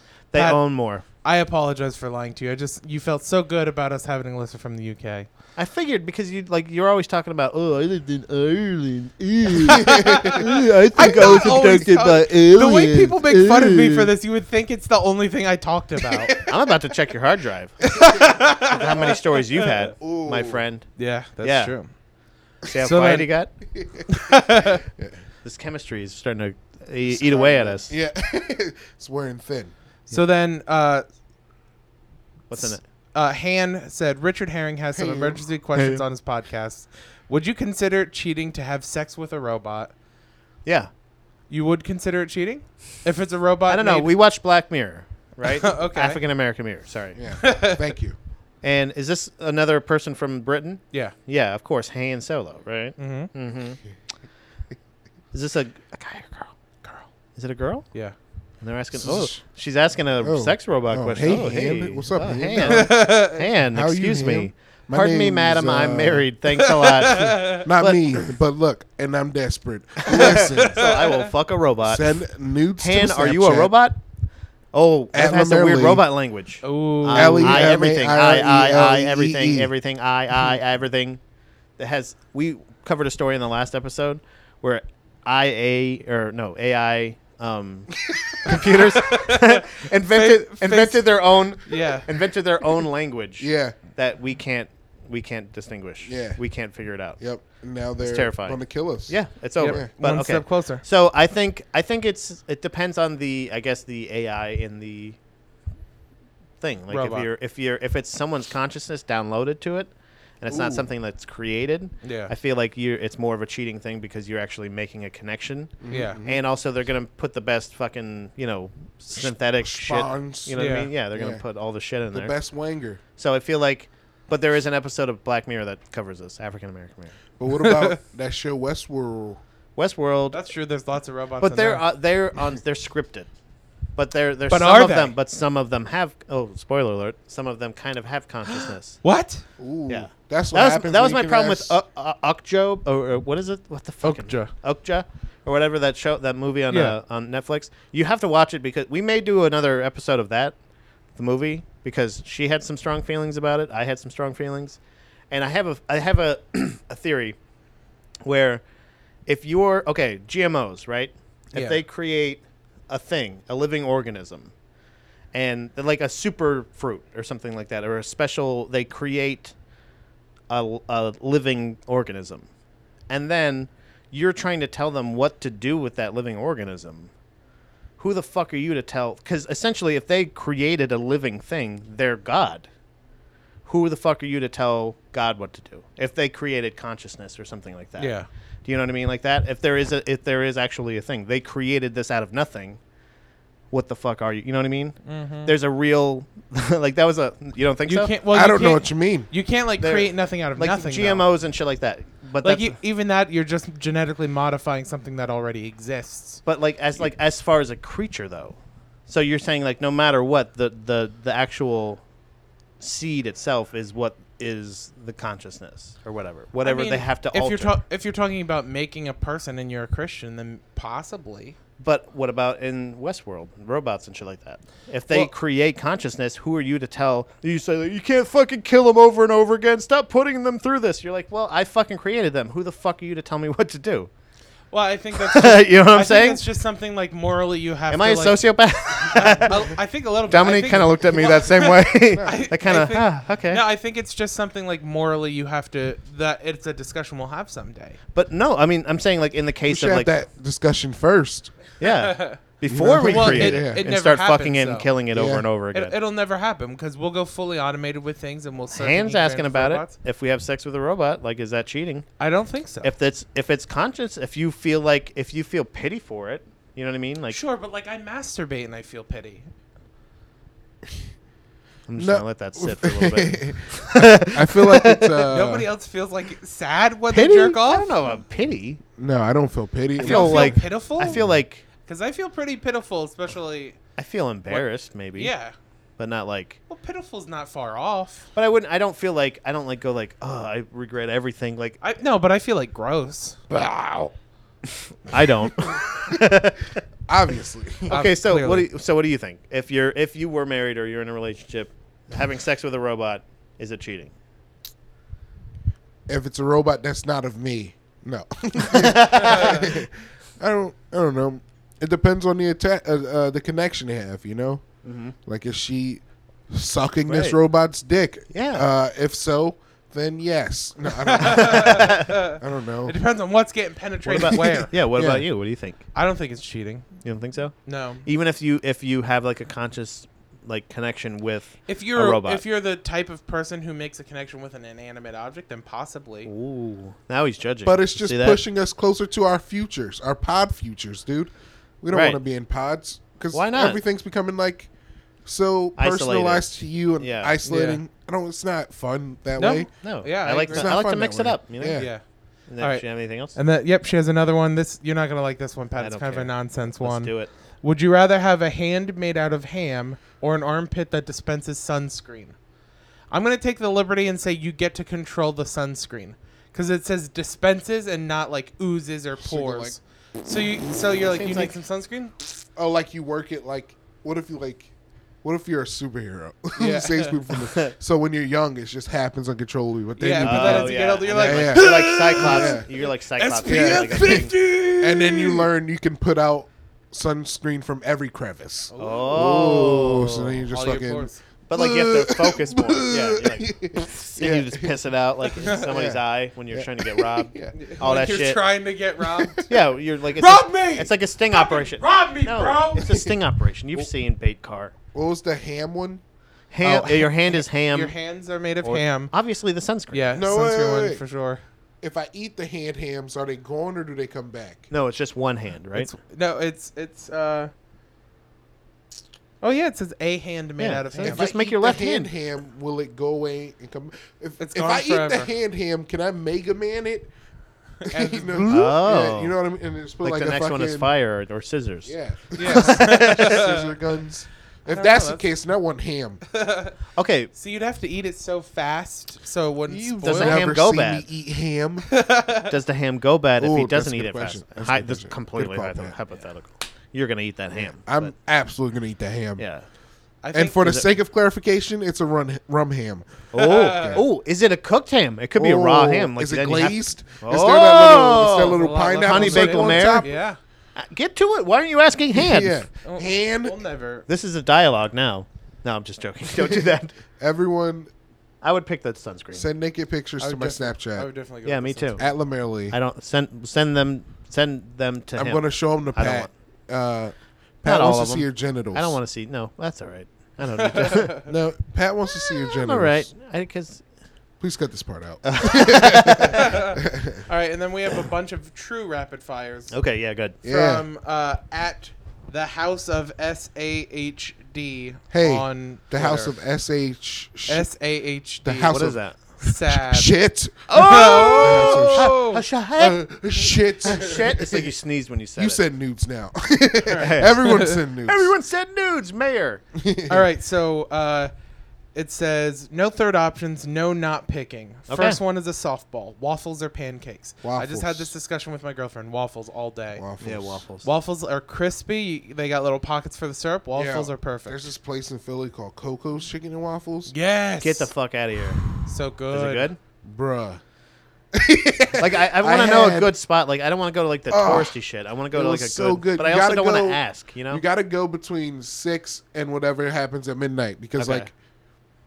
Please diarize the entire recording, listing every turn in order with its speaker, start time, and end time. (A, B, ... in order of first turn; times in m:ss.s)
0:00.2-0:01.0 A
0:00.3-0:05.3 B
0:05.6-0:14.1 A
0:09.6-0:16.4 B
0:09.7-0:11.6 C
0:16.5-0:17.9 A
0:18.0-0:19.0 B
0:18.6-0:20.9 A
0:20.0-0:20.6 C
0:21.0-0:21.9 B
0:21.4-0:21.8 A
0:22.6-0:23.5 A
0:22.7-0:23.3 B
0:23.7-0:24.0 C
0:24.1-0:24.8 B
0:25.4-0:27.9 A
0:27.0-0:29.7 C
0:30.1-0:31.0 B
0:32.5-0:32.8 A
0:33.1-0:39.9 B
0:35.0-0:35.4 C
0:35.7-0:36.0 A
0:40.6-0:40.9 A
0:41.5-0:44.1 B
0:43.7-0:47.2 A
0:45.6-0:46.2 B
0:47.1-0:48.1 C
0:47.4-0:47.8 B
0:48.6-0:53.8 A
0:53.0-0:53.3 B
0:55.3-0:56.5 A
0:57.4-0:57.9 A
0:58.6-1:08.1 A
0:58.9-0:59.4 C
1:00.2-1:06.2 C
1:02.6-1:03.4 B
1:06.6-1:07.6 B
1:07.5-1:10.8 C
1:10.1-1:12.2 A
1:10.6-1:11.3 B
1:11.8-1:13.7 C
1:12.8-1:14.0 A
1:14.7-1:21.2 A
1:15.1-1:16.0 C
1:16.6-1:17.7 B
1:17.1-1:19.7 C
1:21.8-1:37.2 A
1:29.0-1:32.1 B
1:33.4-1:33.8 C
1:36.0-1:36.4 C
1:37.2-1:39.9 C
1:38.0-1:45.2 A
1:39.6-1:40.8 B
1:46.6-2:02.4 A
1:46.9-1:47.3 B
1:50.5-1:50.9 C
1:52.0-1:52.3 B
1:55.8-1:56.4 C
1:55.9-1:56.2 B
1:59.2-2:01.4 C
2:00.6-2:00.9 B
2:02.1-2:03.0 C
2:03.2-2:07.1 A
2:07.4-2:09.4 C
2:07.5-2:08.0 B
2:09.8-2:10.5 A
2:10.3-2:11.8 B
2:11.4-2:13.3 A
2:14.0-2:19.0 A
2:14.5-2:15.1 B
2:18.5-2:19.4 B
2:19.6-2:21.7 C
2:19.9-2:30.5 A
2:24.0-2:24.5 B
2:26.7-2:27.0 B
2:31.2-2:34.8 A
2:35.3-2:37.4 A
2:38.2-2:38.6 A
2:39.2-2:44.5 A
2:41.5-2:41.8 B
2:45.3-2:49.5 A
2:50.5-2:52.5 A
2:53.1-2:57.1 A
2:58.0-3:02.7 A
3:03.6-3:12.8 A
3:08.0-3:08.3 B
3:13.7-3:18.1 A
3:15.0-3:15.5 B
3:17.8-3:21.2 B
3:18.3-3:19.3 C
3:19.8-3:22.8 A
3:22.4-3:26.4 B
3:26.4-3:32.0 A
3:32.8-3:37.8 A
3:36.6-3:41.6 B
3:41.8-3:54.1 A
3:54.7-3:58.4 B
3:55.1-3:56.4 A
3:57.9-3:59.6 A
3:59.1-4:08.0 B
4:00.2-4:03.6 A
4:02.1-4:02.5 C
4:08.1-4:10.1 A
4:09.7-4:11.5 C
4:11.8-4:15.9 A
4:11.8-4:12.4 B
4:12.7-4:13.8 C
4:12.9-4:14.9 B
4:15.1-4:15.4 C
4:15.7-4:19.9 B
4:18.7-4:22.1 A
4:22.2-4:22.9 B
4:22.8-4:27.4 A
4:27.3-4:29.4 B
4:31.9-4:35.2 A
4:32.0-4:35.7 C
4:35.3-4:38.0 B
4:37.1-4:38.8 A
4:39.0-4:41.3 C
4:40.0-4:41.6 A
4:40.0-4:41.2 B
4:41.8-4:43.8 B
4:44.0-4:45.3 A
4:44.5-4:45.5 B
4:46.0-4:46.6 A
4:46.7-4:48.3 B
4:48.3-4:51.8 A
4:51.8-4:53.4 B
4:53.5-4:54.1 C
4:55.1-4:56.8 A
4:57.1-4:58.0 C
4:57.9-5:04.1 A
4:57.9-4:58.7 B
5:06.1-5:22.9 C
5:08.6-5:09.6 A
5:14.8-5:15.1 A
5:17.0-5:17.4 A
5:18.3-5:18.7 A
5:21.0-5:24.7 B
5:21.3-5:22.1 A
5:24.0-5:25.8 A
5:24.9-5:25.3 C
5:25.9-5:26.8 B
5:27.0-5:32.4 A
5:27.6-5:28.0 B
5:31.7-5:36.3 B
5:36.2-5:38.4 A
5:37.6-5:44.7 C
5:41.9-5:42.2 A
5:43.3-5:43.8 A
5:45.2-5:51.9 C
5:45.8-5:47.3 A
5:47.4-5:47.8 B
5:49.4-5:50.7 B
5:49.8-5:51.9 A
5:51.8-5:52.0 B
5:52.5-5:53.4 A
5:52.6-6:02.3 B
5:55.8-5:57.3 A
6:03.1-6:12.1 B
6:09.2-6:09.8 C
6:11.0-6:11.5 A
6:12.6-6:14.7 C
6:15.2-6:22.7 C
6:16.6-6:17.2 B
6:20.0-6:25.5 B
6:20.2-6:24.3 A
6:23.4-6:34.8 C
6:28.7-6:29.1 B
6:28.8-6:30.4 A
6:30.5-6:31.2 B
6:31.5-6:38.4 A
6:35.2-6:35.7 B
6:35.4-6:37.6 C
6:37.5-6:39.4 B
6:39.1-6:39.5 C
6:39.5-6:44.7 A
6:40.2-6:42.9 B
6:42.8-6:43.1 C
6:44.9-6:46.0 C
6:46.5-6:47.9 A
6:46.6-6:49.1 B
6:48.6-6:50.1 A
6:49.9-6:51.4 B
6:50.1-6:51.0 C
6:51.8-6:54.7 C
6:54.7-6:55.9 A
6:55.7-6:57.5 B
6:59.4-7:01.3 B
7:00.6-7:02.1 A
7:00.9-7:07.1 C
7:04.4-7:05.3 B
7:07.8-7:08.5 B
7:07.8-7:10.9 C
7:08.5-7:09.4 A
7:10.0-7:13.4 A
7:11.8-7:16.2 C
7:12.4-7:13.7 B
7:14.7-7:15.2 B
7:16.3-7:16.7 B
7:16.9-7:17.3 A
7:17.3-7:20.4 B
7:19.7-7:21.9 C
7:20.0-7:21.0 A
7:21.9-7:22.5 B
7:22.5-7:28.1 A
7:23.4-7:26.0 C
7:27.5-7:29.4 C
7:29.4-7:29.6 A
7:30.2-7:30.6 B
7:30.3-7:33.1 C
7:30.6-7:30.9 A
7:33.3-7:40.1 A
7:33.4-7:34.0 B
7:33.7-7:34.0 C
7:35.4-7:40.1 C
7:38.4-7:40.4 B
7:40.8-7:42.6 A
7:42.1-7:43.6 C
7:42.8-7:44.0 B
7:44.1-7:46.9 A
7:47.2-7:47.9 C
7:48.4-7:49.4 A
7:49.3-7:51.1 C
7:50.2-7:52.0 B
7:51.4-7:52.1 A
7:52.0-7:52.8 C
7:52.7-7:56.3 A
7:55.2-7:59.0 C
7:57.6-8:01.1 A
8:00.6-8:01.3 B
8:01.3-8:03.1 C
8:02.3-8:03.8 A
8:04.4-8:07.2 C
8:05.2-8:06.5 A
8:06.3-8:09.7 B
8:09.7-8:10.4 A
8:10.4-8:10.8 C
8:10.4-8:16.3 B
8:15.1-8:17.7 C
8:17.5-8:18.8 B
8:18.4-8:24.7 C
8:18.7-8:19.2 A
8:19.4-8:20.1 B
8:20.7-8:22.4 B
8:20.7-8:25.6 A
8:25.4-8:28.3 C
8:26.8-8:27.7 B
8:26.9-8:29.6 A
8:29.8-8:30.3 C
8:30.1-8:31.3 B
8:31.9-8:40.0 B
8:34.9-8:35.2 A
8:37.4-8:38.1 C
8:40.0-8:40.6 C
8:40.2-8:40.9 A
8:40.8-8:44.6 B
8:43.8-8:47.1 C
8:47.1-8:47.9 B
8:47.6-8:48.6 A
8:48.8-8:49.7 B
8:49.3-8:49.8 A
8:50.0-8:50.6 C
8:51.3-8:53.1 C
8:52.0-8:57.6 A
8:54.3-8:54.8 C
8:55.3-9:01.3 C
9:01.0-9:01.3 A